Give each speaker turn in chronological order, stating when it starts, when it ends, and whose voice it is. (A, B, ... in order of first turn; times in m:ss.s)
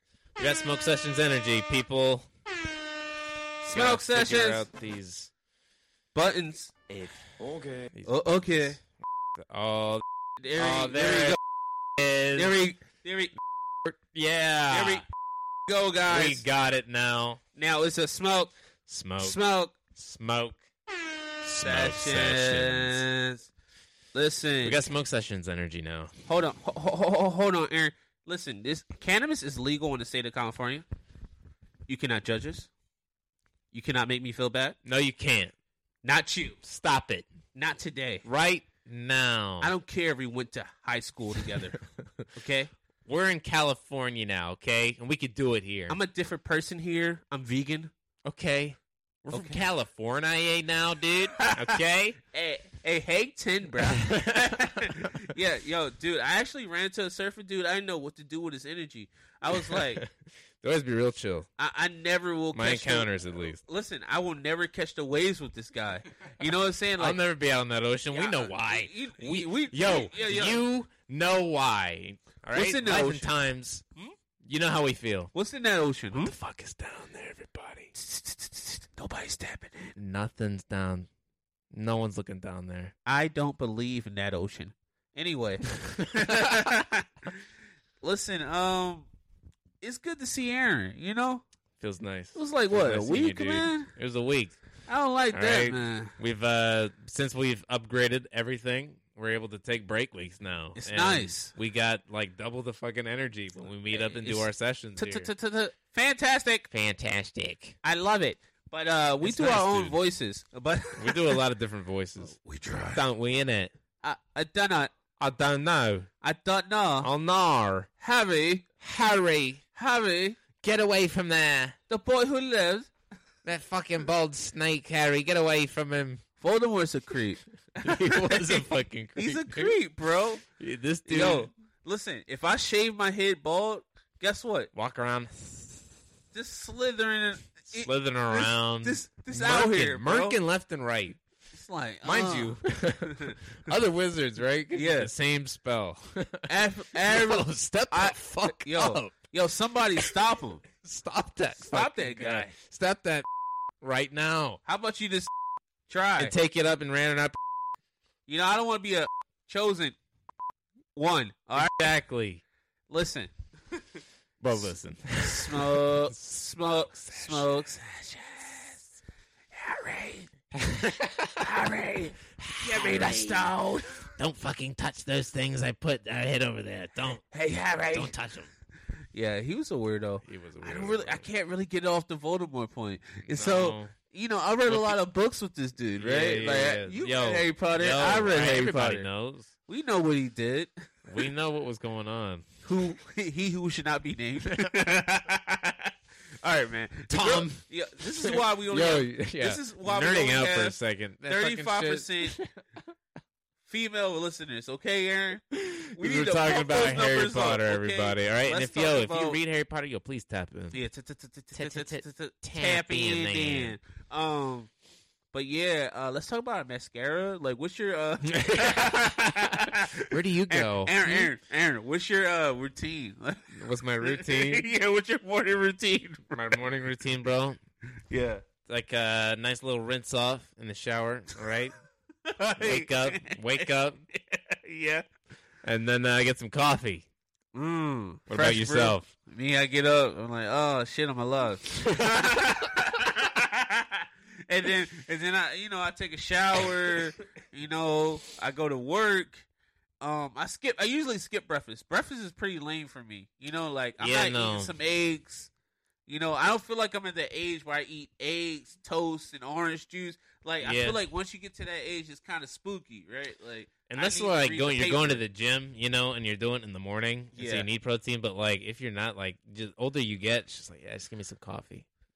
0:00.4-0:02.3 A
0:03.6-0:04.7 B
0:03.7-0:05.3 A
0:06.1-0:06.7 B
0:06.9-0:07.2 A
0:07.9-0:08.3 A
0:08.0-0:08.8 B
0:09.4-0:10.0 A
0:10.4-0:11.4 B
0:10.6-0:11.4 A
0:12.0-0:12.5 A
0:12.3-0:13.3 B
0:13.8-0:15.0 A
0:14.7-0:15.0 B
0:15.7-0:16.4 B
0:16.1-0:17.4 A
0:17.6-0:18.5 B
0:18.9-0:19.4 A
0:19.2-0:19.8 B
0:19.9-0:20.6 A
0:21.4-0:23.0 A
0:21.6-0:23.5 B
0:24.1-0:24.8 B
0:24.6-0:26.1 A
0:26.3-0:30.8 B
0:31.9-0:32.7 B
0:33.7-0:34.8 B
0:34.8-0:35.5 A
0:36.0-0:36.6 B
0:36.6-0:37.3 A
0:37.5-0:38.2 B
0:38.2-0:39.7 A
0:39.6-0:41.8 B
0:41.4-0:42.3 A
0:42.3-0:42.7 B
0:43.0-0:46.0 A
0:45.9-0:47.9 B
0:48.2-0:52.2 A
0:49.3-0:49.6 B
0:51.3-1:00.0 B
0:53.9-0:55.3 A
0:59.5-1:00.1 A
1:00.6-1:01.5 A
1:01.6-1:07.2 B
1:02.5-1:03.6 A
1:07.0-1:13.8 A
1:08.1-1:10.6 B
1:12.5-1:13.3 B
1:14.4-1:15.3 A
1:15.3-1:16.3 B
1:16.2-1:17.9 A
1:17.9-1:19.9 B
1:20.0-1:21.1 A
1:21.7-1:22.9 A
1:23.0-1:27.4 B
1:25.8-1:26.7 A
1:28.0-1:29.1 B
1:29.8-1:31.4 B
1:31.8-1:34.6 A
1:32.3-1:33.9 B
1:34.9-1:36.1 B
1:35.3-1:45.3 A
1:40.8-1:41.5 B
1:43.9-1:46.7 B
1:46.7-1:47.8 A
1:47.8-1:51.4 B
1:49.2-1:50.0 A
1:51.0-1:52.3 A
1:52.2-1:53.0 B
1:52.9-1:53.7 A
1:54.0-1:54.9 B
1:55.2-1:56.1 A
1:56.2-1:57.1 B
1:57.0-1:57.9 A
1:58.0-1:58.6 B
1:58.8-1:59.6 A
1:59.7-2:00.4 B
2:00.6-2:01.8 A
2:01.9-2:02.9 B
2:03.4-2:06.2 A
2:06.4-2:10.4 B
2:07.8-2:09.8 A
2:10.6-2:11.5 A
2:11.0-2:14.7 B
2:14.7-2:15.9 A
2:16.3-2:20.4 B
2:17.7-2:21.2 A
2:21.5-2:23.4 B
2:22.0-2:29.1 A
2:24.7-2:25.1 B
2:26.5-2:30.6 B
2:30.7-2:33.3 A
2:31.6-2:32.5 B
2:33.8-2:34.6 A
2:34.6-2:35.3 B
2:35.9-2:36.3 B
2:36.2-2:37.4 A
2:38.3-2:40.0 B
2:40.9-2:41.9 B
2:41.5-2:42.4 A
2:42.9-2:43.8 B
2:44.4-2:47.6 A
2:44.5-2:48.9 B
2:49.5-2:50.3 B
2:50.5-2:51.4 A
2:51.4-2:54.1 B
2:52.4-2:53.5 A
2:54.2-2:57.2 A
2:57.3-2:58.1 B
2:57.9-2:58.5 A
2:59.1-3:09.1 B
3:00.2-3:01.3 A
3:03.3-3:03.9 A
3:04.7-3:04.9 A
3:06.0-3:09.5 A
3:09.7-3:11.1 B
3:11.1-3:12.5 A
3:12.6-3:22.4 B
3:17.1-3:22.6 A
3:23.6-3:29.4 B
3:25.5-3:30.8 A
3:30.7-3:34.7 B
3:31.5-3:33.8 A
3:35.3-3:46.6 B
3:38.3-3:41.3 A
3:43.5-3:44.6 A
3:46.3-3:47.6 A
3:48.1-3:48.4 B
3:48.7-3:51.7 A
3:52.2-3:55.0 B
3:52.6-3:54.0 A
3:55.6-3:57.0 A
3:57.5-4:09.5 B
3:58.3-3:59.1 A
4:10.0-4:15.5 B
4:14.0-4:14.7 A
4:16.1-4:25.2 B
4:20.6-4:21.0 A
4:23.9-4:31.8 A
4:27.3-4:27.7 B